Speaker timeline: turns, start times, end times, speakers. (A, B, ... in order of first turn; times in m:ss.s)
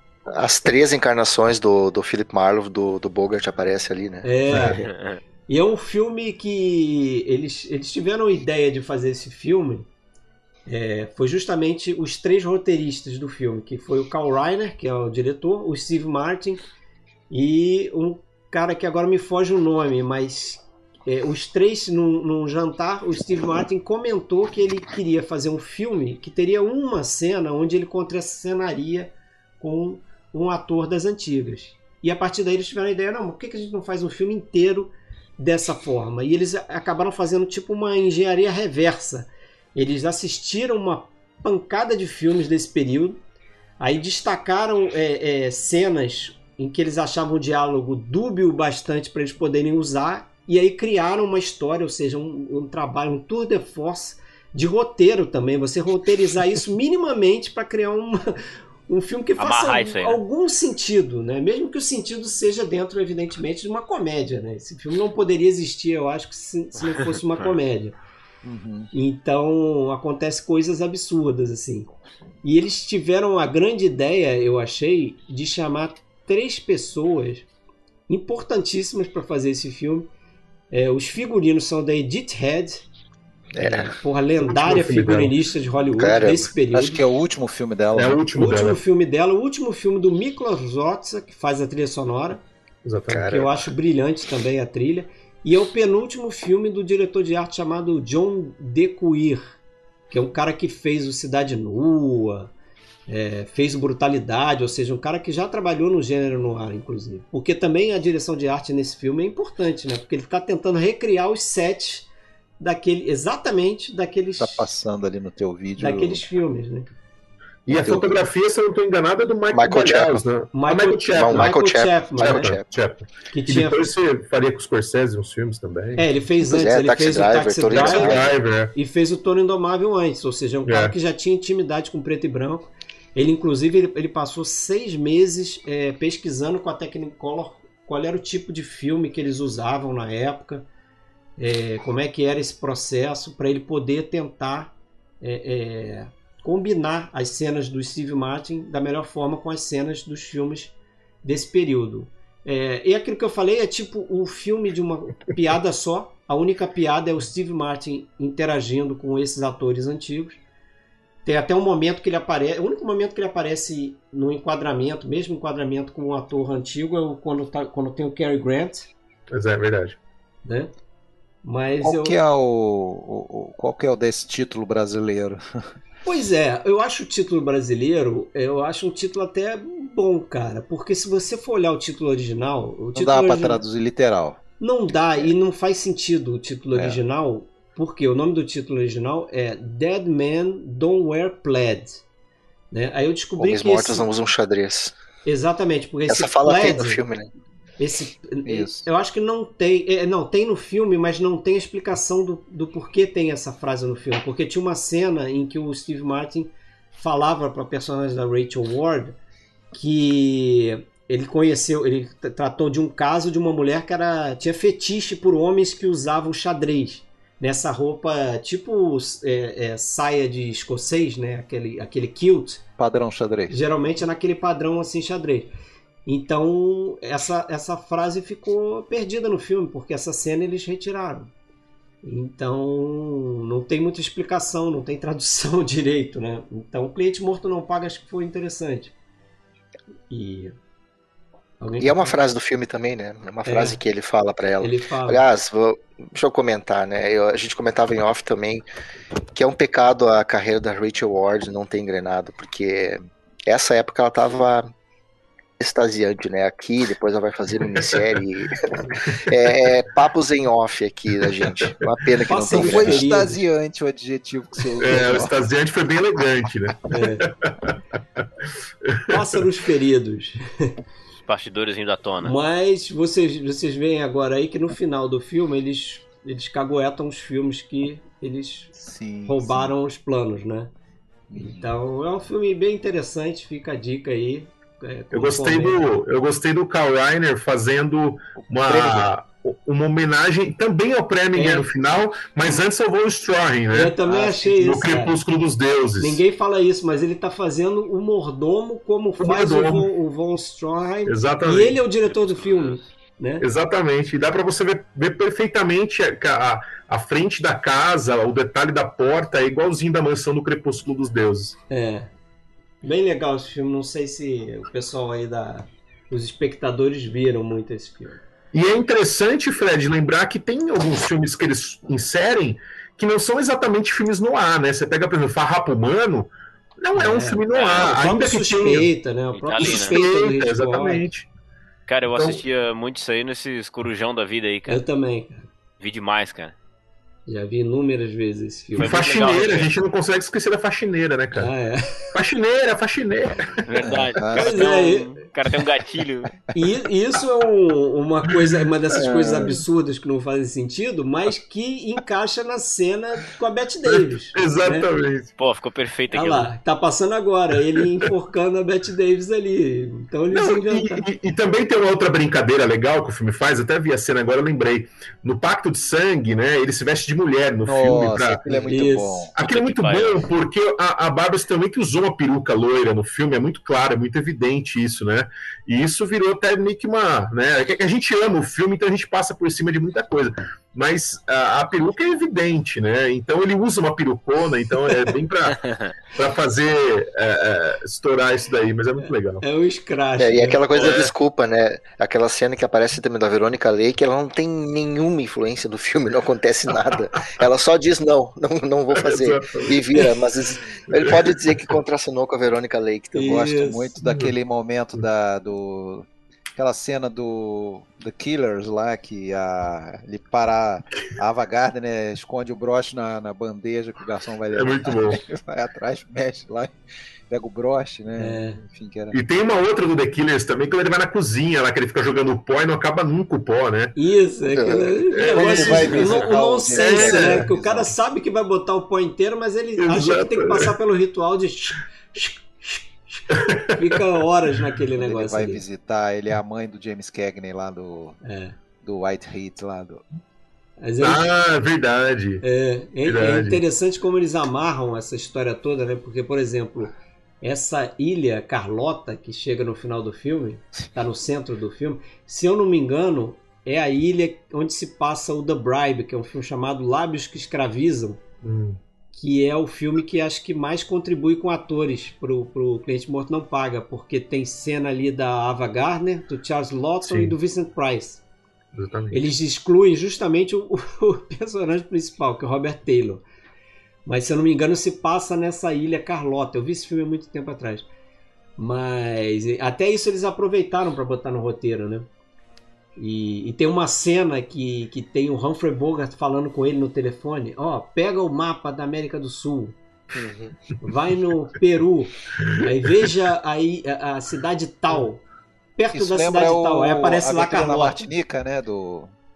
0:00.3-0:04.3 A
0:04.2-0:04.9 B
0:04.5-0:04.8 C
0:05.0-0:05.2 D
0:05.5-0:09.9 B
0:10.7-0:16.6 B
0:17.3-0:43.2 B
0:43.8-1:08.0 B
0:59.4-1:00.2 D
1:08.4-1:08.9 E
1:08.9-1:11.9 B
1:12.4-1:17.5 B
1:18.1-1:20.1 B
1:20.7-1:22.8 B
1:23.6-1:23.9 A
1:23.6-1:27.0 B
1:24.6-1:25.4 C
1:26.0-1:26.5 A
1:26.7-1:28.2 E
1:27.9-1:28.8 C
1:28.4-1:32.4 B
1:32.8-1:33.3 C
1:33.1-1:33.6 A
1:33.3-1:39.6 B
1:40.1-1:42.5 B
1:43.1-1:52.1 B
1:52.6-1:54.7 B
1:54.4-1:56.2 E
1:55.8-1:56.9 B
1:57.7-2:01.5 C
1:57.7-1:58.2 A
1:59.5-2:00.2 A
2:00.5-2:02.6 B
2:01.1-2:02.7 A
2:02.2-2:06.0 C
2:03.3-2:03.9 B
2:06.0-2:08.2 B
2:06.4-2:08.3 A
2:07.7-2:08.7 C
2:08.7-2:20.7 B
2:10.6-2:10.9 C
2:21.4-2:40.4 B
2:41.2-2:48.9 B
2:49.3-2:50.0 C
2:50.4-2:50.7 B
2:51.4-2:52.2 B
2:51.8-2:55.7 E
2:56.0-3:03.6 B
3:03.0-3:04.4 E
3:04.6-3:12.0 B
3:06.7-3:07.0 E
3:12.7-3:14.1 B
3:13.4-3:14.9 A
3:15.2-3:17.0 B
3:16.1-3:17.3 A
3:17.8-3:29.2 B
3:18.4-3:18.9 E
3:29.7-3:42.6 B
3:42.8-3:43.6 E
3:43.5-3:45.5 B
3:46.1-3:51.3 B
3:52.0-3:58.9 B
4:00.1-4:00.6 B
4:01.6-4:02.1 B
4:01.8-4:08.6 A
4:03.5-4:03.8 B
4:04.6-4:05.2 B
4:09.3-4:14.7 A
4:15.6-4:23.0 A
4:18.8-4:19.2 C
4:22.3-4:23.4 B
4:22.3-4:25.3 E
4:24.8-4:28.2 C
4:26.9-4:27.2 B
4:28.8-4:29.2 C
4:29.1-4:30.7 B
4:31.3-4:32.3 D
4:32.2-4:38.7 B
4:38.8-4:39.7 E
4:39.3-4:40.7 B
4:41.3-4:41.7 E
4:41.4-4:45.8 B
4:45.1-4:56.2 C
4:48.4-4:49.1 E
4:51.4-4:51.7 B
4:53.7-4:55.2 B
4:56.0-5:03.5 B
4:59.2-4:59.9 C
5:01.0-5:01.8 C
5:03.4-5:11.6 C
5:11.7-5:12.1 B
5:12.8-5:18.2 B
5:18.5-5:28.9 C
5:26.9-5:31.1 B
5:27.5-5:27.9 D
5:29.4-5:30.0 D
5:29.6-5:31.3 C
5:31.9-5:34.8 D
5:32.1-5:32.4 C
5:34.7-5:35.5 B
5:35.8-5:36.6 D
5:37.3-5:39.0 B
5:38.8-5:41.5 C
5:38.8-5:39.7 D
5:41.4-5:42.2 B
5:42.1-5:43.7 C
5:43.7-5:46.4 D
5:43.8-5:44.6 E
5:44.3-5:45.2 B
5:46.5-5:54.9 B
5:48.3-5:48.5 C
5:53.9-5:55.3 C
5:55.4-5:56.5 D
5:56.1-6:01.0 B
6:00.3-6:08.7 C
6:07.6-6:09.3 E
6:08.7-6:09.3 B
6:09.4-6:29.4 C
6:09.4-6:10.3 D
6:25.6-6:25.9 D
6:29.0-6:31.0 B
6:30.2-6:43.2 A
6:30.8-6:31.1 C
6:38.9-6:40.1 C
6:40.8-6:41.8 C
6:43.1-6:43.9 B
6:43.2-6:56.7 E
6:44.0-6:44.3 C
6:54.5-6:55.2 C
6:57.3-6:59.2 E
6:58.2-6:58.6 B
6:59.1-7:03.9 C
7:04.0-7:15.6 B
7:04.5-7:04.9 A
7:05.1-7:06.1 C
7:05.3-7:07.9 E
7:06.7-7:07.5 C
7:09.8-7:10.7 C
7:13.3-7:14.0 C
7:15.0-7:18.2 E
7:18.2-7:18.6 B
7:18.8-7:20.0 E
7:20.8-7:21.3 B
7:21.0-7:22.4 C
7:22.4-7:38.2 B
7:23.0-7:23.6 C
7:38.4-7:38.8 C
7:39.2-7:48.2 B
7:47.0-7:47.4 C
7:48.8-7:49.3 C
7:49.1-7:53.2 B
7:54.1-7:57.9 B
7:58.6-8:02.1 B
8:03.0-8:09.8 B
8:10.1-8:10.6 A
8:10.8-8:15.2 B
8:12.4-8:13.1 C
8:15.8-8:18.0 B
8:15.9-8:19.1 E